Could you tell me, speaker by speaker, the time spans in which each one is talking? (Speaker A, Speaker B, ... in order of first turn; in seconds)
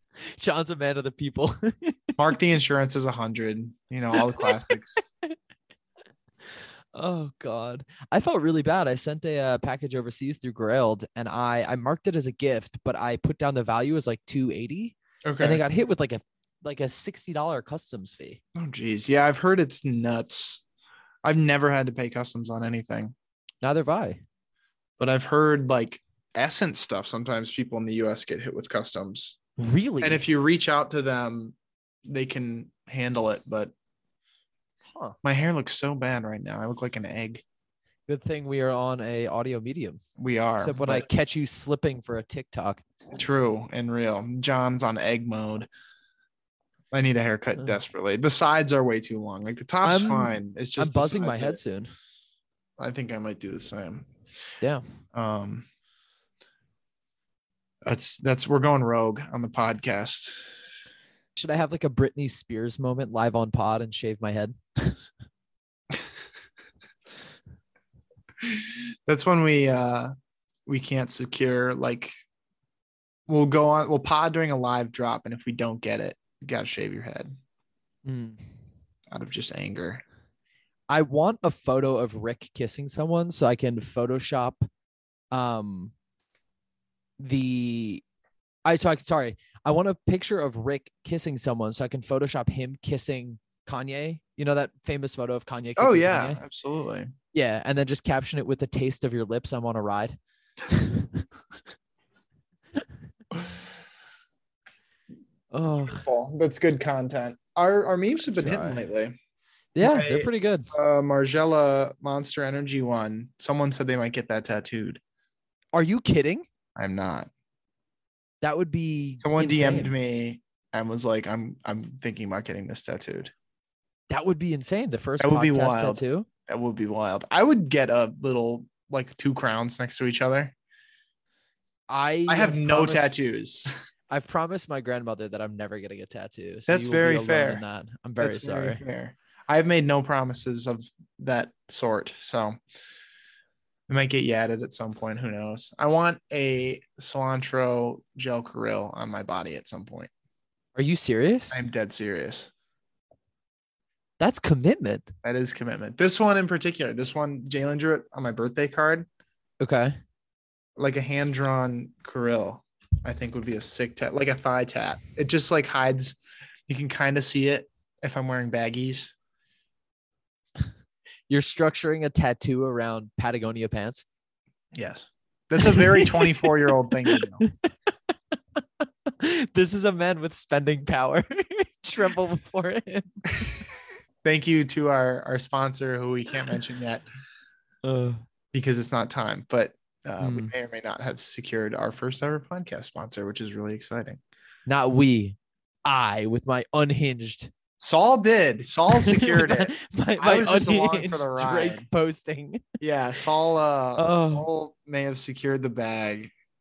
Speaker A: 0.3-2.1, 4.2-4.7, 6.9-18.4, 23.6-24.2, 29.6-30.2, 38.1-40.0, 40.6-42.8, 49.8-51.9, 61.4-65.0, 78.0-78.4, 80.9-84.6, 85.3-85.9, 87.2-88.0, 88.7-96.4, 97.3-100.2, 100.7-101.2, 105.5-106.0, 108.3-108.8, 109.7-110.7, 115.7-116.5, 118.4-119.9, 124.1-126.3, 131.9-133.3, 134.1-138.8, 150.8-151.6, 154.2-155.1, 159.6-159.9, 171.3-174.0, 175.6-176.4, 177.1-177.5, 178.6-183.5, 187.8-188.2, 190.2-190.5, 194.7-197.5, 198.9-202.6, 204.0-204.4
Speaker B: 2.2-5.0, 15.2-15.6, 18.5-20.6, 21.2-23.1, 25.0-29.4, 30.0-31.6, 32.1-33.7, 35.2-37.4, 40.2-41.0, 43.1-45.7, 46.9-51.6, 52.8-54.1, 55.1-55.7, 57.8-60.4, 68.4-70.1, 70.7-72.1, 73.3-77.3, 79.1-80.0, 95.8-97.1, 105.8-109.2, 109.8-115.0, 116.8-117.3, 119.2-123.3, 125.2-130.5, 132.3-133.7, 136.7-137.6, 138.2-142.6, 143.9-150.1, 151.5-152.5, 155.2-159.1, 160.8-169.1, 174.7-177.4, 184.2-187.0, 188.5-194.2, 197.8-201.8, 202.8-206.3